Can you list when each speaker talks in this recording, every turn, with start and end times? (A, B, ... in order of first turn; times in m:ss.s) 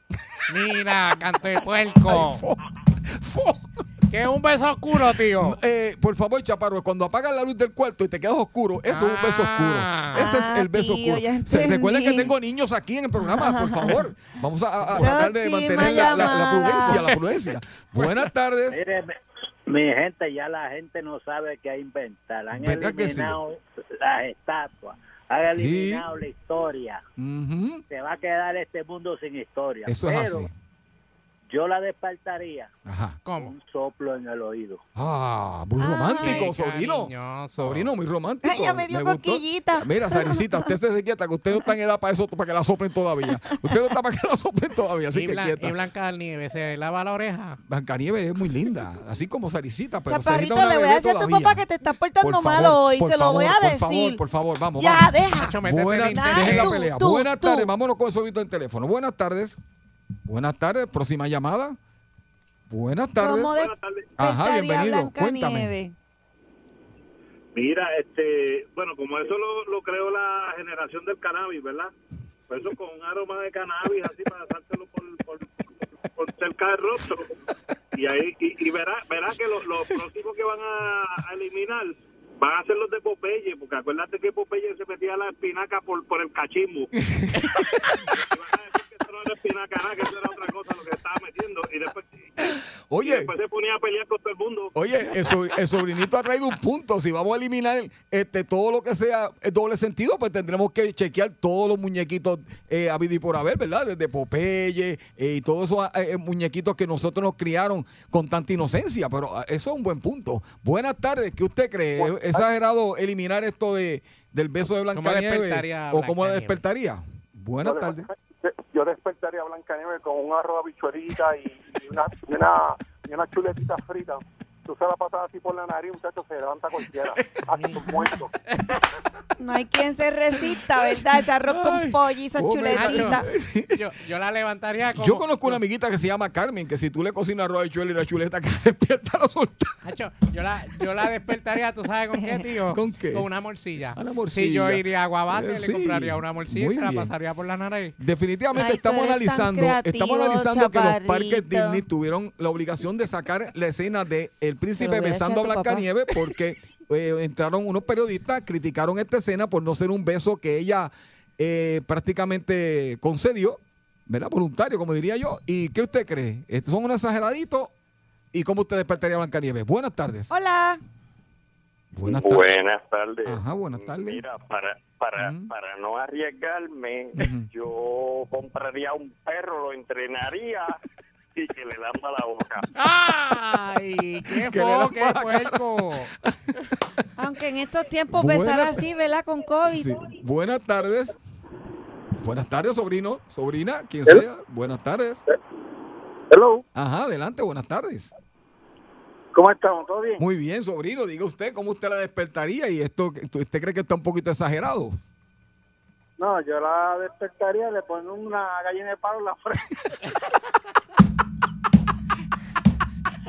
0:00.5-0:02.4 A
0:02.0-0:03.8 B
0:04.1-0:05.6 A
0:05.4-0:18.8 B
0:08.9-0:10.2 A
0:10.1-0:12.3 C
0:13.2-0:14.0 C
0:15.0-0:17.1 C
0:18.7-0:19.1 D
0:19.7-0:27.0 D
0:22.6-0:23.4 B
0:25.5-0:26.1 B
0:27.2-0:27.8 B
0:27.9-0:30.5 D
0:29.9-0:30.5 B
0:31.5-0:32.7 D
0:32.8-0:33.2 B
0:33.2-0:33.5 A
0:33.4-0:34.8 D
0:35.0-0:45.8 B
0:35.8-0:36.5 C
0:36.2-0:37.9 A
0:38.4-0:40.7 C
0:45.1-0:47.6 A
0:47.7-0:51.6 B
0:50.1-0:54.2 C
0:52.2-0:55.1 B
0:54.8-0:55.6 C
0:55.4-0:56.8 A
0:55.6-0:59.6 B
0:56.1-0:57.7 C
1:00.3-1:01.8 B
1:02.7-1:03.7 B
1:03.2-1:06.0 C
1:03.6-1:04.0 E
1:04.2-1:05.8 B
1:07.6-1:11.9 E
1:12.5-1:15.5 E
1:16.1-1:17.3 E
1:18.0-1:26.9 E
1:27.1-1:28.0 B
1:28.2-1:32.4 E
1:32.9-1:33.3 B
1:33.0-1:34.7 E
1:34.7-1:58.1 B
1:54.9-1:56.6 A
1:57.6-2:08.3 F
2:09.4-2:13.3 C
2:11.5-2:13.8 B
2:12.7-2:15.6 A
2:15.0-2:19.9 B
2:19.8-2:28.0 A
2:22.2-2:22.4 C
2:22.7-2:23.3 B
2:23.9-2:27.1 B
2:28.0-2:47.7 B
2:28.6-2:31.8 C
2:34.8-2:36.2 C
2:48.3-2:50.3 B
2:50.3-2:50.8 C
2:52.0-2:52.6 B
2:52.0-2:53.4 G
2:53.2-2:54.2 B
2:54.0-2:57.0 G
2:55.2-2:55.5 B
2:57.1-2:57.5 B
2:57.6-3:00.6 G
3:01.4-3:02.6 G
3:02.8-3:06.1 A
3:04.3-3:06.7 B
3:07.2-3:10.0 C
3:08.1-3:08.8 B
3:09.7-3:11.1 B
3:12.2-3:15.2 B
3:16.8-3:18.1 B
3:19.4-3:20.2 F
3:20.2-3:25.0 B
3:26.2-3:29.6 F